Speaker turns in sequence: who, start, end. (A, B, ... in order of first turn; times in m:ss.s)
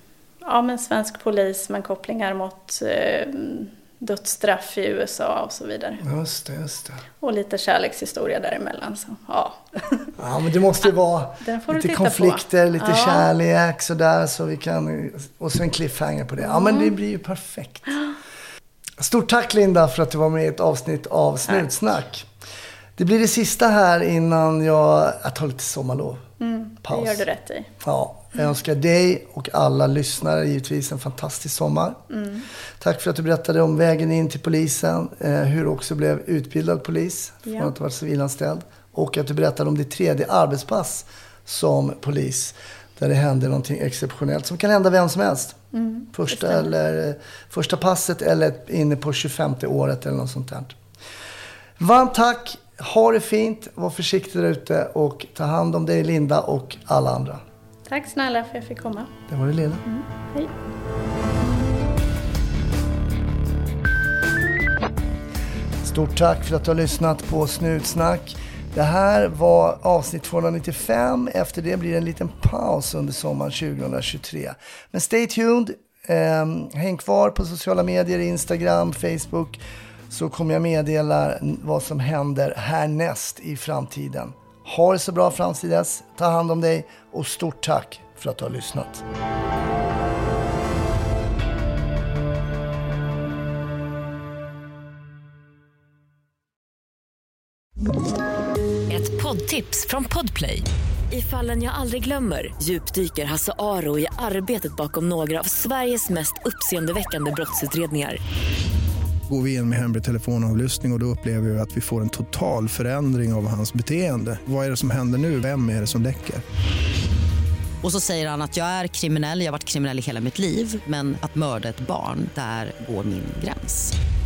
0:00.4-0:06.0 A
0:06.0-0:07.0 B
0:07.2-0:10.1 A
0:10.2-0:18.0 B
0:11.4-0:13.3 A
0:16.4-0:17.0 A
0:19.0-0:22.3 B
0:23.0-0:26.2 B
0:26.4-0:27.7 A
0:26.8-0:27.2 B
0:27.8-0:32.0 B
0:32.1-0:32.5 A
0:32.8-0:45.6 B
0:37.4-0:37.7 A
0:45.7-0:46.7 A
0:46.1-0:50.8 B
0:51.8-0:57.4 B
0:57.9-0:59.1 A
0:59.3-0:59.8 B
0:59.8-1:00.5 A
1:05.8-1:29.0 B
1:38.9-1:48.2 C
1:49.3-1:56.4 D
1:57.8-2:03.9 E